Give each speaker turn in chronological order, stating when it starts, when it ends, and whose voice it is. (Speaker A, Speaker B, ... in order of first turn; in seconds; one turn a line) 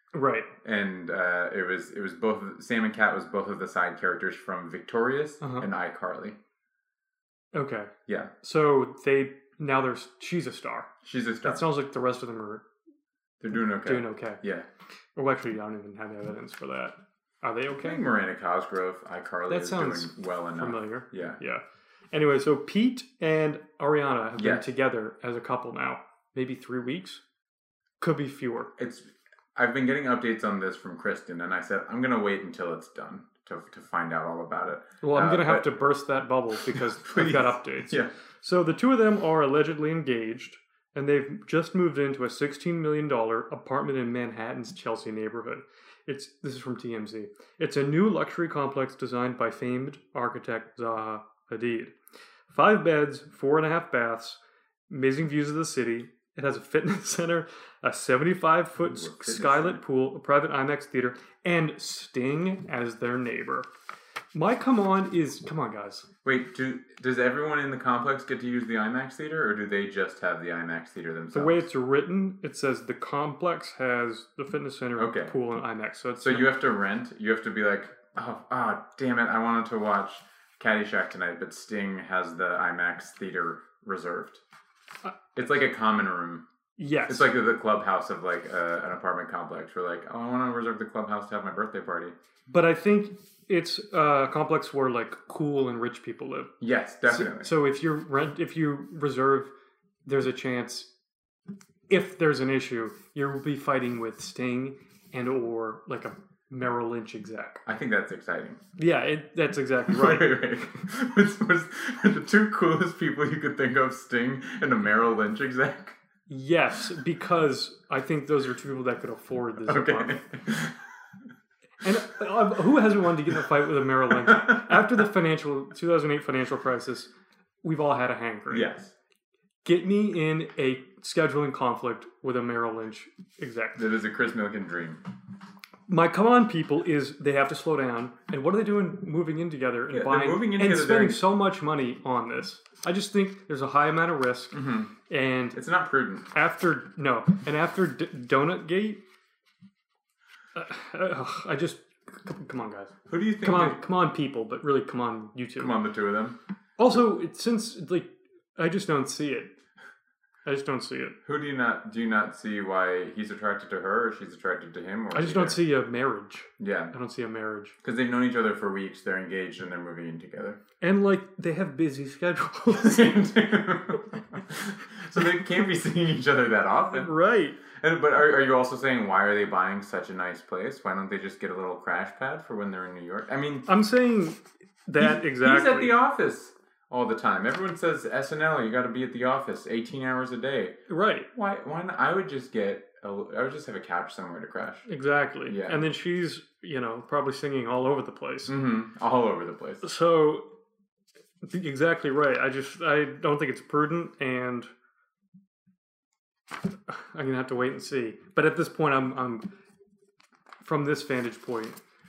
Speaker A: 0.1-0.5
Speaker B: 0.6-6.4
Speaker A: 5.4-5.7
Speaker A: 7.5-10.9
Speaker B: 8.1-8.3
Speaker B: 11.0-11.6
Speaker A: 11.4-12.6
Speaker B: 13.4-14.7
Speaker A: 13.8-14.4
Speaker A: 15.1-18.0
Speaker B: 17.8-21.4
Speaker A: 19.5-21.6
Speaker A: 22.1-27.2
Speaker B: 24.4-24.7
Speaker A: 28.0-28.7
Speaker B: 28.8-35.8
Speaker A: 35.0-51.9
Speaker B: 36.7-38.1
Speaker A: 52.5-63.7
Speaker B: 58.9-59.8
Speaker A: 64.3-66.1
Speaker B: 66.2-71.7
Speaker A: 71.3-76.5
Speaker B: 75.0-75.3
Speaker B: 76.2-84.4
Speaker B: 85.3-86.5
Speaker A: 86.8-87.3
Speaker B: 87.1-92.1
Speaker A: 92.5-96.5
Speaker B: 96.6-97.5
Speaker A: 97.0-99.5
Speaker A: 100.0-100.9
Speaker A: 101.9-107.6
Speaker B: 107.7-108.6
Speaker A: 108.8-110.3
Speaker B: 109.9-116.0
Speaker A: 116.3-120.2
Speaker B: 119.7-120.8
Speaker A: 121.8-127.1
Speaker B: 124.1-124.8
Speaker A: 127.6-128.7
Speaker B: 128.5-128.9
Speaker A: 129.6-133.8
Speaker B: 133.8-135.0
Speaker A: 135.9-145.6
Speaker B: 139.9-141.2
Speaker B: 144.5-144.9
Speaker B: 145.5-146.3
Speaker A: 146.3-149.0
Speaker A: 150.5-155.8
Speaker B: 153.1-153.8
Speaker B: 155.6-156.4
Speaker A: 156.8-159.5
Speaker A: 160.4-161.2
Speaker B: 161.2-165.6
Speaker A: 165.1-167.8
Speaker B: 166.6-166.9
Speaker B: 167.8-170.6
Speaker A: 170.8-173.1
Speaker B: 172.7-177.1
Speaker A: 176.8-177.6
Speaker B: 177.7-183.7
Speaker A: 183.7-185.9
Speaker B: 185.0-190.8
Speaker A: 190.9-191.3
Speaker B: 191.3-194.8
Speaker A: 194.8-198.5
Speaker B: 195.5-195.8
Speaker B: 198.5-199.8
Speaker A: 199.8-200.5
Speaker A: 201.4-204.7
Speaker A: 206.9-209.4
Speaker A: 210.6-211.8